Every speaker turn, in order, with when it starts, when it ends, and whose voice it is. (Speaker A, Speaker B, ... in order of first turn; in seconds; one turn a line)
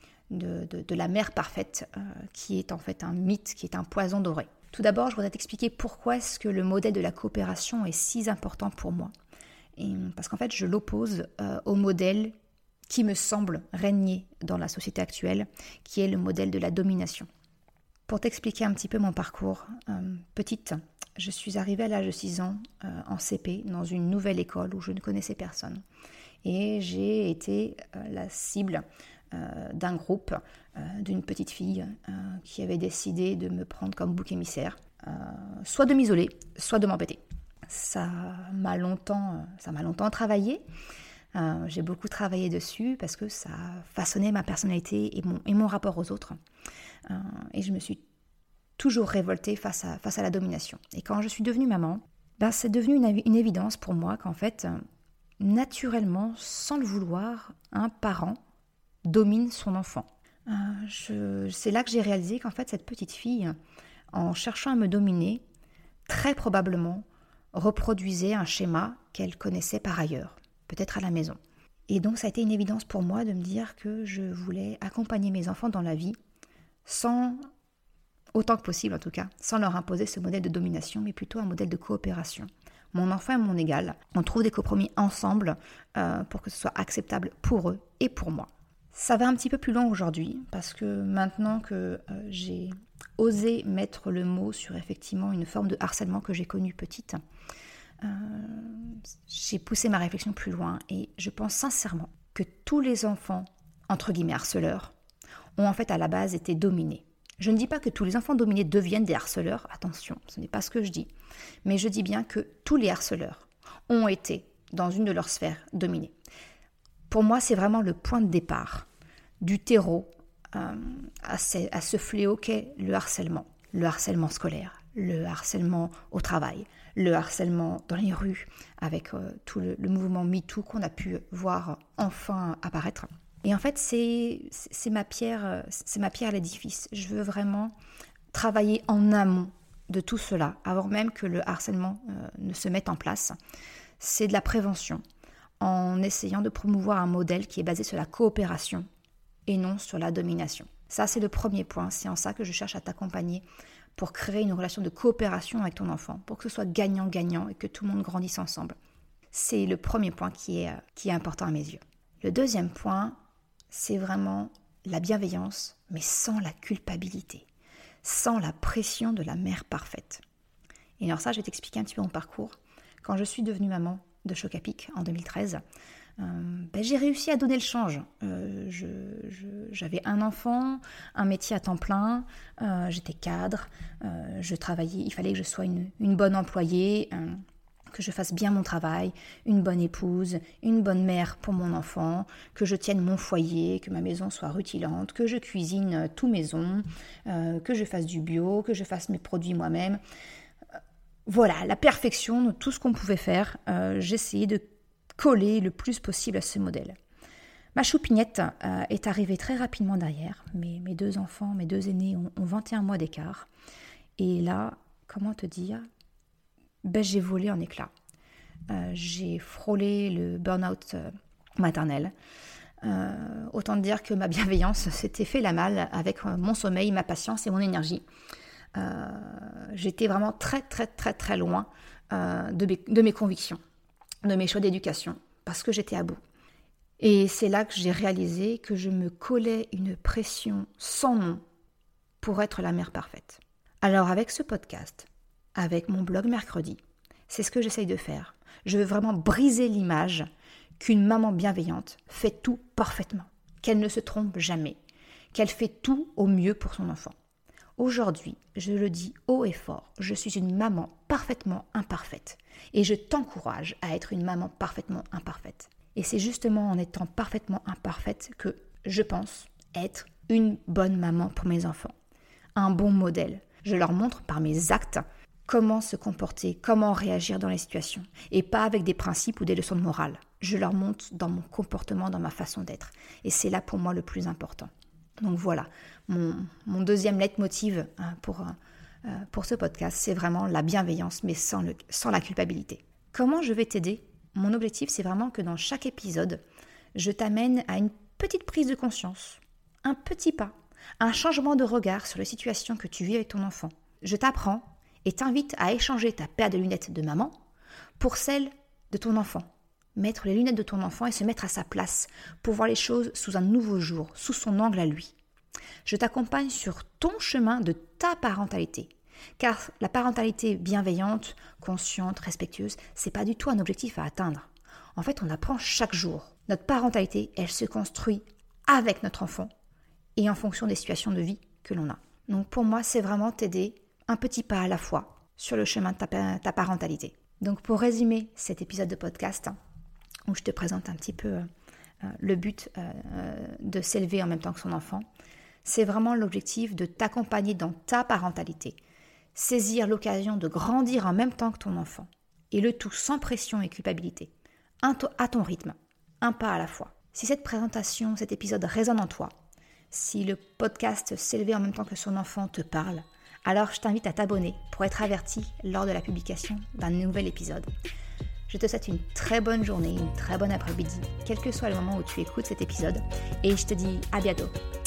Speaker A: 0.3-9.1
Speaker A: 9.8-12.3
Speaker A: 12.9-17.3
Speaker A: 18.1-25.8
Speaker A: 26.4-40.6
Speaker A: 41.3-46.4
Speaker A: 47.0-48.0
Speaker A: 48.8-54.8
Speaker A: 55.4-58.4
Speaker A: 59.0-63.5
Speaker A: 64.1-65.4
Speaker A: 66.1-71.4
Speaker A: 71.9-76.2
Speaker A: 76.8-77.4
Speaker A: 78.3-97.2
Speaker A: 98.0-104.9
Speaker A: 105.5-111.1
Speaker A: 111.6-116.1
Speaker A: 117.1-118.9
Speaker A: 119.4-137.7
Speaker A: 138.3-143.4
Speaker A: 144.0-145.0
Speaker A: 145.6-148.8
Speaker A: 149.5-153.4
Speaker A: 153.9-158.7
Speaker A: 159.3-163.2
Speaker A: 163.7-167.4
Speaker A: 168.0-170.2
Speaker A: 171.0-175.6
Speaker A: 176.2-187.4
Speaker A: 187.9-200.0
Speaker A: 201.2-204.6
Speaker A: 205.2-206.9
Speaker A: 207.7-213.5
Speaker A: 214.2-215.8
Speaker A: 216.8-217.9
Speaker A: 218.7-222.1
Speaker A: 222.8-228.0
Speaker A: 228.7-233.6
Speaker A: 234.2-236.2
Speaker A: 237.0-241.4
Speaker A: 242.2-250.3
Speaker A: 250.8-254.8
Speaker A: 255.3-257.1
Speaker A: 257.8-271.9
Speaker A: 272.6-284.7
Speaker A: 285.2-296.4
Speaker A: 296.9-307.3
Speaker A: 308.0-315.1
Speaker A: 315.8-329.5
Speaker A: 330.1-339.6
Speaker A: 340.3-341.5
Speaker A: 342.0-345.1
Speaker A: 345.6-348.8
Speaker A: 349.3-354.3
Speaker A: 354.8-359.3
Speaker A: 359.9-367.7
Speaker A: 368.5-374.5